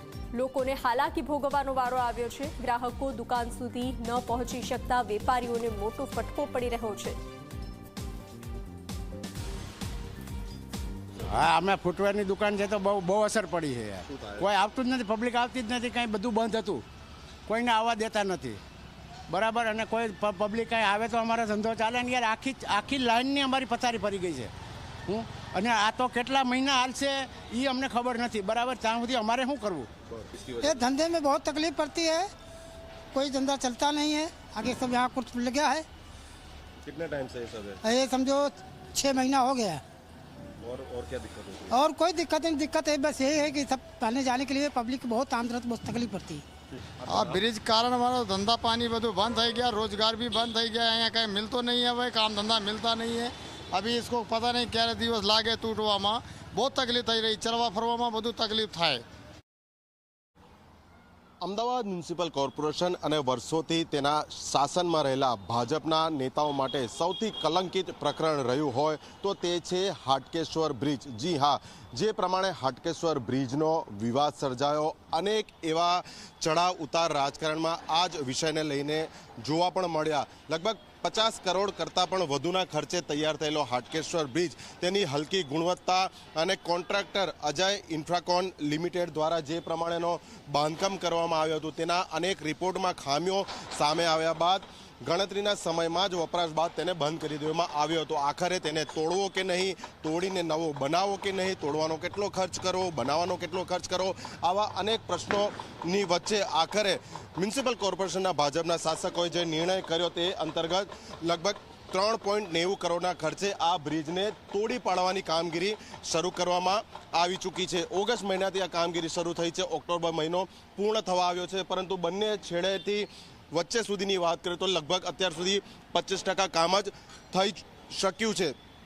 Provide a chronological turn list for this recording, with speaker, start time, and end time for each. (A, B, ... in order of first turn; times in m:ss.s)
0:00.3-0:07.2 A
0:11.3-0:16.8 B
0:17.5-0:18.6 B
0:19.3-0:24.5 B
0:25.1-0:29.9 B
0:30.0-0:30.8 C
0:30.6-0:32.3 D
0:33.1-0:35.8 D
0:36.8-0:37.8 C
0:37.8-0:39.8 D
0:40.6-0:41.8 C
0:41.7-0:46.4 D
0:47.1-0:59.0 E
1:01.4-2:08.5 C